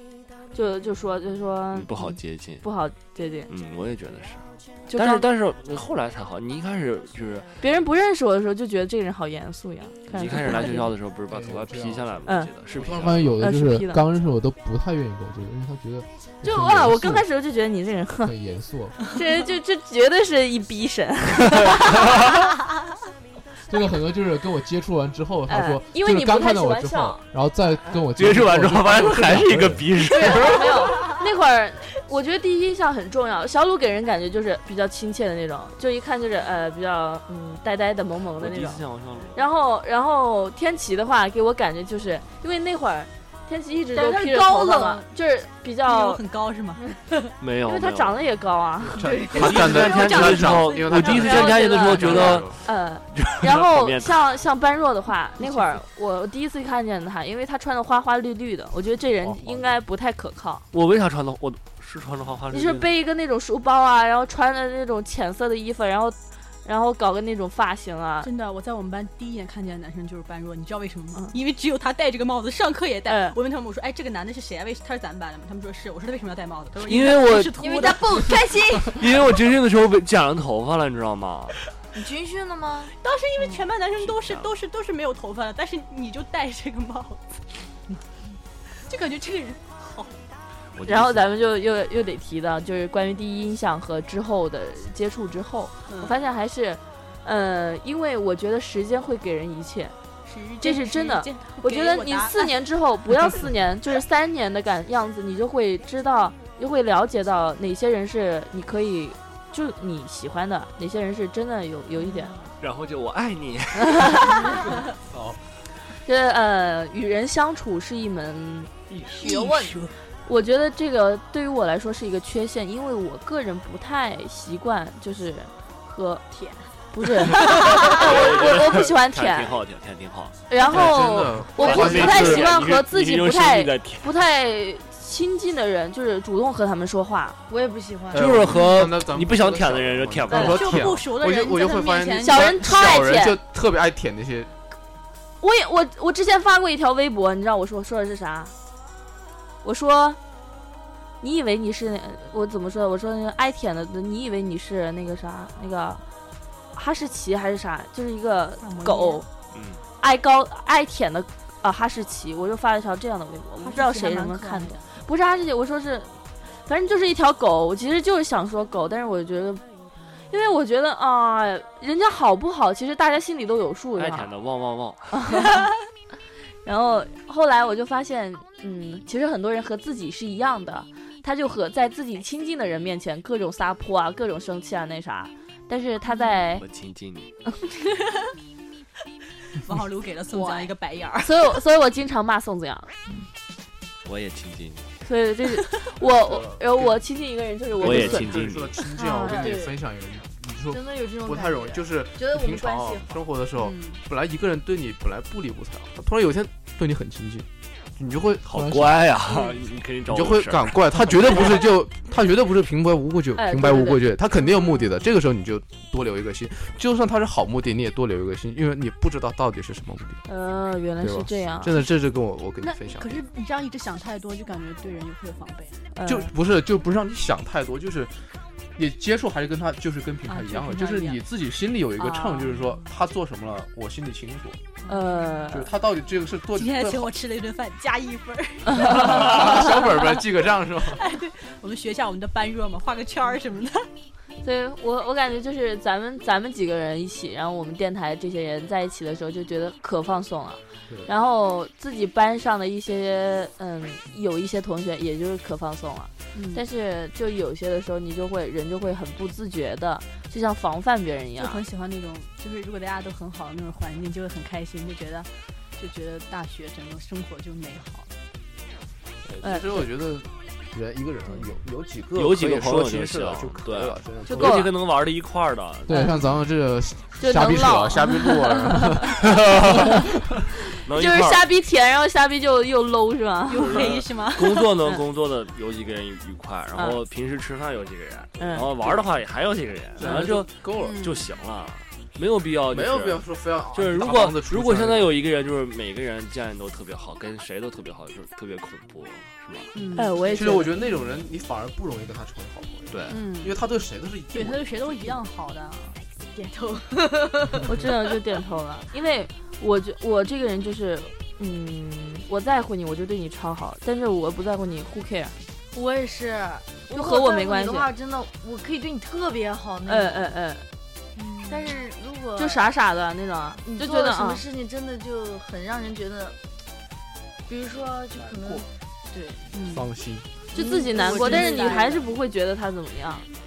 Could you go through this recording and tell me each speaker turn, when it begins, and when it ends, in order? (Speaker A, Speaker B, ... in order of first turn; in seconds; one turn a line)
Speaker A: 0.5-3.5
Speaker B: 1.7-2.6
Speaker B: 3.5-7.6
Speaker A: 4.9-5.2
Speaker A: 7.6-10.9
Speaker B: 10.1-13.4
Speaker C: 10.3-10.6
Speaker C: 11.3-17.3
Speaker A: 12.2-12.5
Speaker A: 13.4-14.0
Speaker A: 16.4-18.3
Speaker C: 18.2-19.0
Speaker A: 19.1-22.2
Speaker B: 21.5-22.1
Speaker C: 23.7-29.9
Speaker A: 25.5-27.2
Speaker B: 28.1-30.9
Speaker A: 30.1-46.2
Speaker D: 30.3-31.0
Speaker B: 38.4-39.4
Speaker D: 43.9-45.0
Speaker E: 45.9-46.9
Speaker B: 47.4-48.2
Speaker A: 47.6-49.1
Speaker C: 49.0-52.6
Speaker D: 49.0-50.2
Speaker B: 49.3-54.2
Speaker E: 49.4-51.4
Speaker A: 51.0-60.6
Speaker E: 55.4-55.8
Speaker B: 59.2-59.7
Speaker B: 60.7-62.9
Speaker A: 62.5-68.3
Speaker E: 68.2-78.4
Speaker A: 73.1-73.4
Speaker B: 76.8-77.6
Speaker D: 77.6-79.1
Speaker B: 78.9-81.6
Speaker D: 81.9-82.9
Speaker E: 83.0-87.5
Speaker B: 84.0-84.5
Speaker E: 88.7-90.2
Speaker B: 90.7-91.3
Speaker A: 90.9-100.0
Speaker E: 95.9-96.2
Speaker E: 100.2-103.5
Speaker A: 100.6-112.3
Speaker B: 112.6-114.6
Speaker A: 113.8-114.5
Speaker C: 115.1-115.4
Speaker A: 116.0-118.7
Speaker B: 118.9-119.2
Speaker E: 119.2-120.0
Speaker D: 119.2-119.9
Speaker A: 120.2-126.2
Speaker D: 126.3-126.7
Speaker A: 126.9-129.6
Speaker D: 127.4-127.9
Speaker B: 127.5-130.4
Speaker A: 130.5-137.4
Speaker C: 130.6-132.6
Speaker B: 131.6-134.1
Speaker D: 137.5-138.6
Speaker C: 138.1-144.5
Speaker B: 138.1-141.0
Speaker E: 140.3-143.0
Speaker A: 142.2-143.4
Speaker A: 145.4-148.5
Speaker A: 149.6-150.2
Speaker A: 151.2-156.0
Speaker A: 156.7-159.3
Speaker E: 158.6-159.2
Speaker B: 159.5-159.8
Speaker A: 160.0-169.6
Speaker E: 163.6-165.0
Speaker A: 170.3-174.3
Speaker B: 174.0-175.4
Speaker A: 175.1-175.7
Speaker A: 176.6-186.6
Speaker E: 186.1-186.4
Speaker B: 186.6-187.4
Speaker E: 187.8-188.3
Speaker E: 189.5-191.6
Speaker D: 190.3-190.7
Speaker A: 191.2-192.9
Speaker B: 194.0-194.9
Speaker A: 195.1-198.4
Speaker E: 195.6-195.9
Speaker C: 196.0-197.0
Speaker C: 197.8-209.1
Speaker B: 197.8-198.7
Speaker D: 198.9-199.8
Speaker D: 200.7-203.2
Speaker E: 203.6-204.0
Speaker B: 208.5-211.3
Speaker C: 210.1-220.2
Speaker A: 213.3-214.1
Speaker A: 220.3-221.7
Speaker C: 221.0-223.2
Speaker E: 222.6-225.9
Speaker A: 225.9-226.3
Speaker C: 226.1-234.6
Speaker E: 230.3-231.2
Speaker E: 232.0-232.9
Speaker E: 234.8-235.6
Speaker A: 234.9-235.7
Speaker C: 235.5-237.1
Speaker E: 236.6-240.3
Speaker C: 238.7-241.1
Speaker E: 240.8-243.9
Speaker A: 244.4-261.6
Speaker E: 256.3-256.6
Speaker E: 261.4-268.1
Speaker C: 269.3-274.7
Speaker A: 269.4-269.8
Speaker B: 272.1-275.9
Speaker A: 274.3-274.7
Speaker C: 275.9-280.1
Speaker A: 277.2-279.1
Speaker B: 279.3-279.9
Speaker B: 280.8-281.5
Speaker A: 280.9-284.0
Speaker E: 283.5-284.8
Speaker B: 283.6-299.7
Speaker A: 288.4-288.7
Speaker C: 290.0-291.0
Speaker E: 290.8-291.3
Speaker C: 292.7-295.1
Speaker E: 299.7-300.6
Speaker A: 299.9-300.7
Speaker C: 300.3-304.6
Speaker B: 302.9-303.2
Speaker E: 303.1-303.6
Speaker E: 304.3-306.0
Speaker D: 306.3-307.9
Speaker A: 307.6-315.4
Speaker D: 315.7-320.3
Speaker A: 316.9-317.9
Speaker A: 319.9-320.7
Speaker E: 321.1-321.8
Speaker D: 321.4-322.7
Speaker A: 322.4-324.4
Speaker D: 323.6-326.4
Speaker D: 327.5-329.5
Speaker C: 328.2-328.7
Speaker E: 329.5-329.9
Speaker C: 329.7-330.3
Speaker D: 330.5-332.1
Speaker A: 330.5-333.3
Speaker E: 330.6-332.1